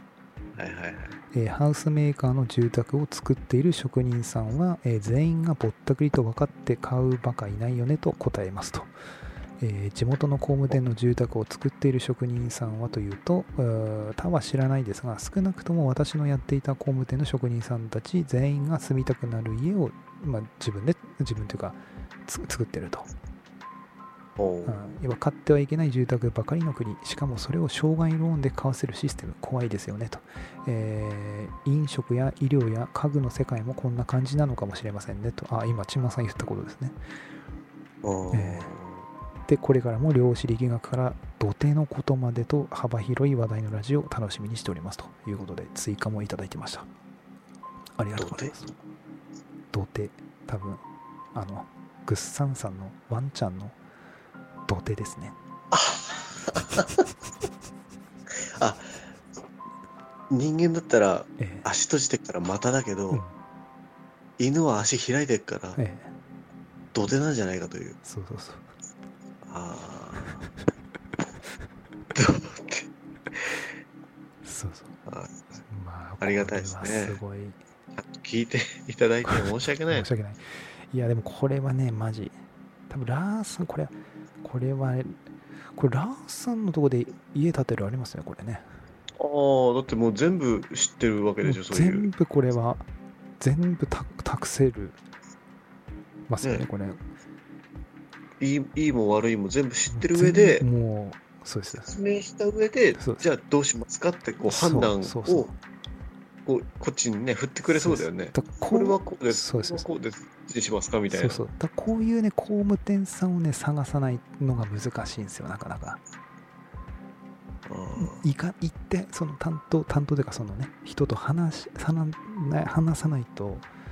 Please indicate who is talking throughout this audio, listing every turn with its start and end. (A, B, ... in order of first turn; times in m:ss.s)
0:00.6-0:01.2 A
0:01.3-0:08.9 B
0:09.6-0:23.1 B
0:24.4-0:24.8 A
0:24.6-0:37.0 B
0:38.0-0:39.0 A
0:38.3-0:38.7 B
0:39.5-0:46.9 B
0:48.0-0:48.8 B
0:48.2-0:48.5 A
0:49.7-0:50.8 B
0:51.4-0:53.8 B
0:54.7-0:55.4 B
0:55.7-0:57.0 A
0:58.5-0:59.0 A
1:00.3-1:03.2 A
1:01.4-1:01.7 B
1:04.4-1:05.8 A
1:05.8-1:06.2 B
1:06.9-1:08.0 A
1:08.0-1:08.7 B
1:09.4-1:10.4 A
1:12.1-1:13.6 A
1:14.4-1:14.9 B
1:15.1-1:15.6 A
1:15.7-1:17.6 B
1:16.2-1:17.2 A
1:18.0-1:20.1 A
1:19.3-1:22.4 B
1:22.9-1:25.2 B
1:25.8-1:28.7 B
1:29.2-1:32.1 A
1:31.4-1:32.9 B
1:33.4-1:35.0 B
1:36.3-1:37.0 B
1:38.4-1:40.6 A
1:39.9-1:41.9 B
1:41.8-1:45.5 A
1:43.0-1:43.3 B
1:44.5-1:45.6 B
1:46.5-1:51.4 A
1:47.7-1:49.9 B
1:51.1-1:56.0 B
1:57.7-1:58.2 A
1:58.0-2:03.7 B